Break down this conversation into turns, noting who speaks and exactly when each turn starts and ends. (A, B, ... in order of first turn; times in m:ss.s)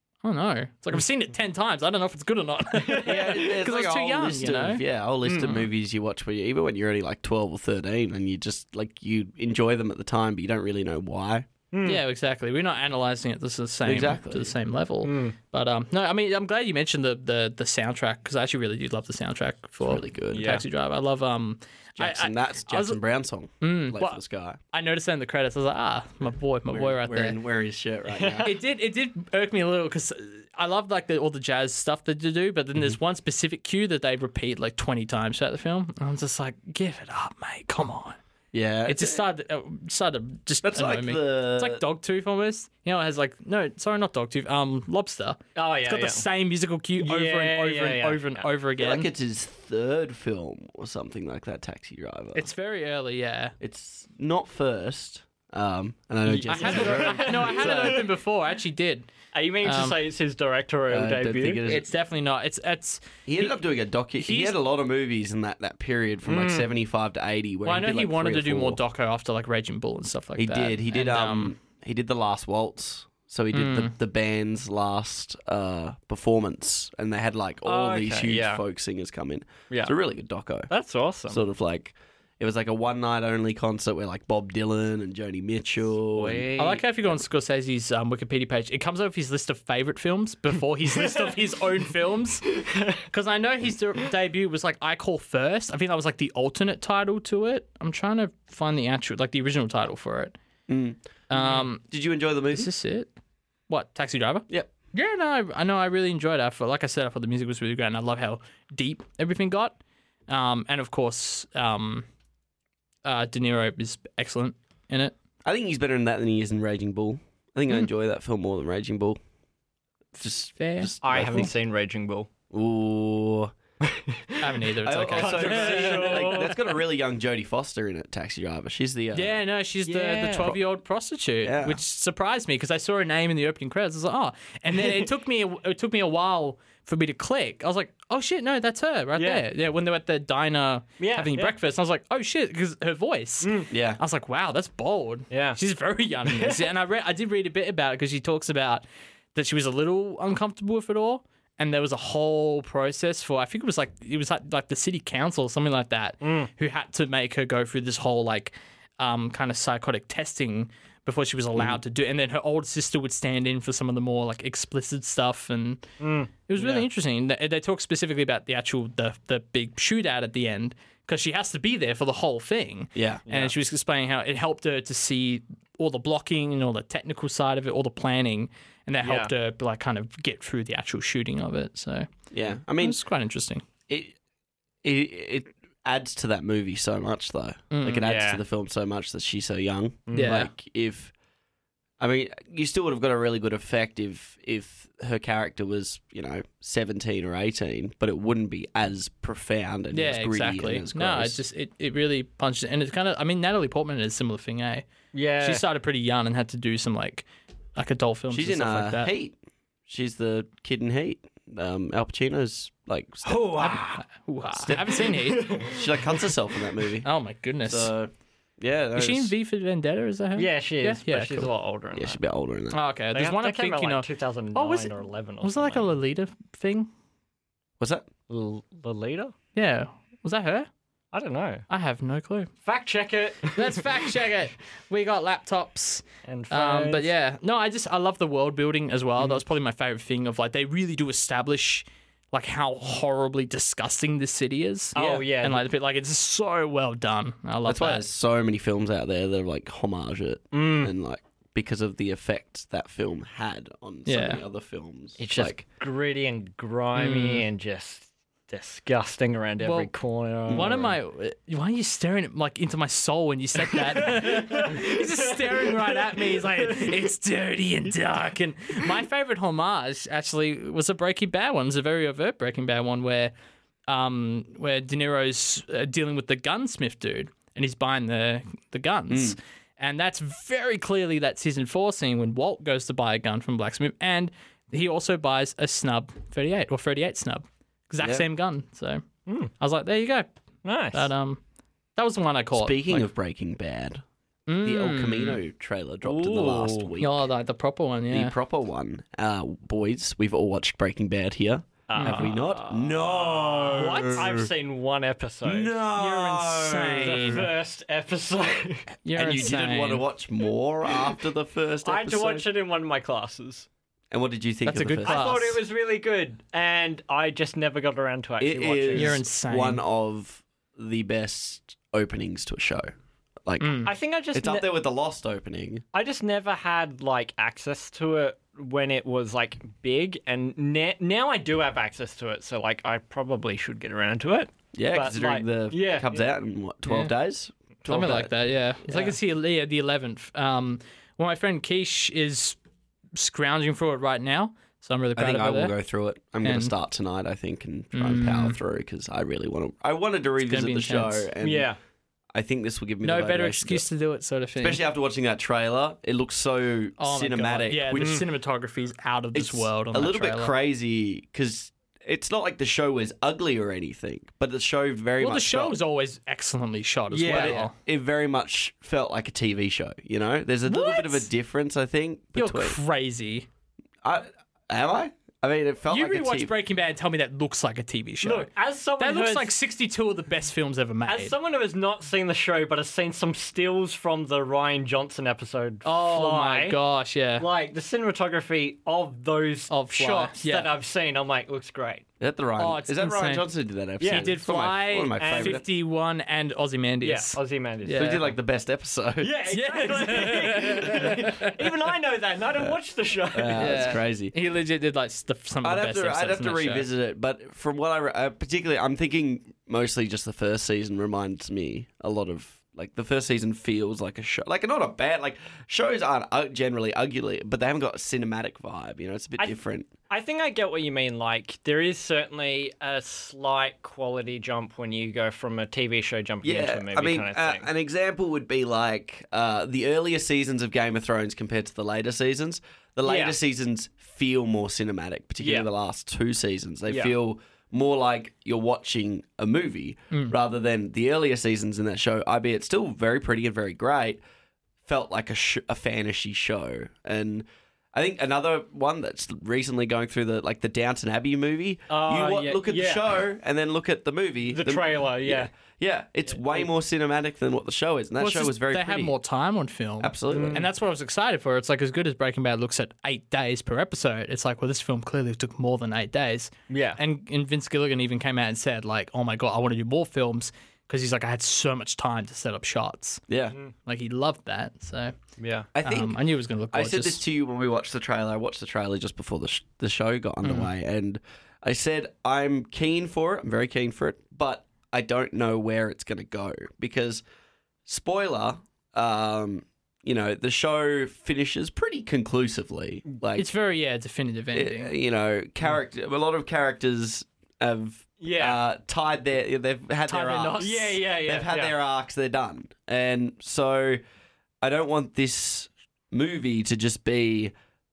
0:00.2-0:04.8 A
0:02.8-0:03.5 B
0:03.0-0:11.5 C
0:05.2-0:05.5 B
0:11.7-0:12.0 B
0:11.8-0:23.0 A
0:13.8-0:14.5 C
0:15.0-0:15.4 B
0:19.8-0:20.6 C
0:20.3-0:20.6 B
0:22.0-0:24.6 C
0:23.6-0:24.2 A
0:24.7-0:27.4 A
0:26.7-0:28.5 C
0:28.1-0:28.6 B
0:28.4-0:38.2 A
0:38.5-0:39.2 C
0:38.8-0:49.1 A
0:40.6-0:41.8 C
0:45.6-0:46.2 B
0:47.0-0:48.5 B
0:48.8-0:52.5 C
0:52.3-0:53.5 A
0:53.6-0:58.0 C
0:56.3-0:59.1 A
0:56.3-0:58.1 B
0:59.3-1:01.6 B
0:59.6-1:00.0 A
1:00.9-1:01.9 C
1:01.6-1:03.5 A
1:03.2-1:08.8 C
1:04.2-1:04.6 A
1:06.2-1:06.7 B
1:07.6-1:11.6 A
1:10.4-1:20.7 C
1:13.5-1:13.9 A
1:17.6-1:18.6 B
1:19.7-1:19.9 B
1:20.7-1:21.4 B
1:21.3-1:26.4 C
1:26.1-1:26.8 B
1:26.6-1:32.4 A
1:30.9-1:31.3 B
1:32.5-1:33.0 B
1:33.1-1:40.3 A
1:40.7-1:42.7 C
1:41.3-1:41.8 A
1:42.5-1:43.1 A
1:43.7-1:52.0 A
1:53.0-1:55.1 A
1:55.4-1:59.2 C
2:00.2-2:01.5 C
2:00.6-2:01.4 A
2:01.0-2:02.3 B
2:02.5-2:03.5 C
2:03.8-2:04.5 B
2:04.4-2:06.5 A
2:04.8-2:09.4 C
2:05.1-2:06.5 B
2:09.1-2:45.8 A
2:09.8-2:10.5 B
2:11.4-2:11.8 C
2:14.7-2:15.1 B
2:19.2-2:19.4 B
2:21.0-2:21.5 B
2:23.4-2:23.7 B
2:23.7-2:24.0 C
2:25.3-2:25.6 B
2:26.2-2:26.7 B
2:36.2-2:36.5 B
2:46.0-2:46.8 B
2:46.5-3:02.1 A
2:52.9-2:53.2 C
2:53.3-2:53.5 B
2:59.0-2:59.3 B
3:02.3-3:03.0 C
3:02.8-3:03.6 A
3:03.9-3:04.2 C
3:04.8-3:11.1 C
3:07.7-3:08.0 A
3:08.0-3:08.4 B
3:10.1-3:10.4 B
3:10.1-3:10.5 A
3:12.0-3:21.4 C
3:19.9-3:24.8 A
3:25.1-3:25.6 B
3:25.4-3:29.1 A
3:28.3-3:33.9 C
3:33.2-3:33.9 B
3:33.6-3:35.6 A
3:34.6-3:37.1 C
3:35.0-3:36.4 B
3:37.0-3:37.9 A
3:37.6-3:39.3 C
3:39.0-3:41.5 A
3:40.4-3:42.2 B
3:41.9-3:42.8 C
3:42.7-3:46.9 A
3:43.1-3:45.9 B
3:47.8-3:48.1 C
3:48.3-3:49.3 B
3:49.5-3:50.7 A
3:51.1-3:51.6 B
3:51.7-3:52.5 A
3:52.6-3:53.9 B
3:53.5-4:08.0 A
3:56.2-3:57.1 B
4:04.9-4:05.2 C
4:04.9-4:05.7 B
4:07.6-4:15.6 C
4:10.5-4:10.9 B
4:14.1-4:14.4 A
4:15.2-4:20.9 B
4:17.0-4:17.4 A
4:19.6-4:19.9 A
4:20.5-4:20.9 C
4:20.5-4:33.3 A
4:23.7-4:27.0 B
4:33.9-4:49.0 A
4:39.1-4:39.4 C
4:49.3-4:49.5 B
4:49.6-4:50.3 A
4:50.6-4:51.1 B
4:50.9-4:51.4 A
4:52.0-4:53.1 A
4:52.5-4:54.0 C
4:54.5-4:55.4 A
4:54.6-4:57.3 C
4:56.0-4:56.9 B
4:57.0-4:58.3 A
4:58.1-5:04.5 C
5:01.9-5:08.9 B
5:02.0-5:02.3 A
5:05.4-5:07.5 C
5:06.0-5:07.5 A
5:09.0-5:10.0 A
5:09.1-5:12.4 C
5:11.8-5:13.7 B
5:14.1-5:15.5 C
5:14.6-5:15.6 A
5:15.0-5:19.2 B
5:18.4-5:22.9 C
5:18.9-5:19.8 A
5:23.4-5:25.8 C
5:23.6-5:23.9 A
5:23.8-5:24.7 B
5:25.9-5:36.3 B
5:34.7-5:38.3 C
5:36.9-5:37.1 A
5:37.8-5:42.6 A
5:38.8-5:39.1 C
5:43.2-5:45.7 A
5:45.2-5:51.7 C
5:46.4-5:46.7 A
5:47.9-5:48.6 A
5:50.4-5:51.3 A
5:51.4-5:51.8 B
5:52.3-5:53.8 C
5:53.0-5:54.8 A
5:54.6-5:58.2 C
5:57.0-6:00.5 A
5:57.9-5:58.2 B
5:59.3-6:05.8 C
6:05.2-6:07.7 A
6:07.1-6:07.7 B
6:07.2-6:12.8 C
6:10.6-6:11.3 A
6:12.4-6:13.5 A
6:14.0-6:16.5 C
6:15.9-6:21.3 A
6:18.2-6:19.5 B
6:21.1-6:26.8 B
6:25.8-6:27.5 A
6:27.4-6:32.0 B
6:29.7-6:30.7 A
6:32.2-6:35.6 C
6:32.6-6:33.4 A
6:34.0-6:34.3 B
6:34.0-6:38.3 A
6:35.2-6:35.6 B
6:37.0-6:38.3 B
6:37.9-6:39.3 C
6:39.2-6:44.0 B
6:39.5-6:41.5 A
6:43.3-6:44.3 C
6:43.6-6:46.9 A
6:45.6-6:59.9 C
6:59.4-7:07.7 B
7:06.4-7:24.2 C
7:13.0-7:13.4 B
7:15.4-7:15.7 B
7:16.9-7:17.1 B
7:20.1-7:20.4 A
7:24.8-7:39.1 C
7:31.9-7:33.1 B
7:34.5-7:35.5 B
7:36.3-7:36.7 B
7:38.2-7:53.2 A
7:40.0-7:40.7 C
7:40.3-7:40.6 B
7:46.7-7:47.0 B
7:53.3-7:53.6 C
7:53.8-7:55.1 A
7:55.4-7:55.7 B
7:55.7-8:07.2 C
7:55.8-7:57.2 A
8:00.4-8:00.7 A
8:07.8-8:13.5 C
8:13.4-8:14.9 A
8:14.5-8:24.0 C
8:18.2-8:18.6 B
8:20.1-8:21.0 A
8:20.6-8:21.7 B
8:24.6-8:27.5 C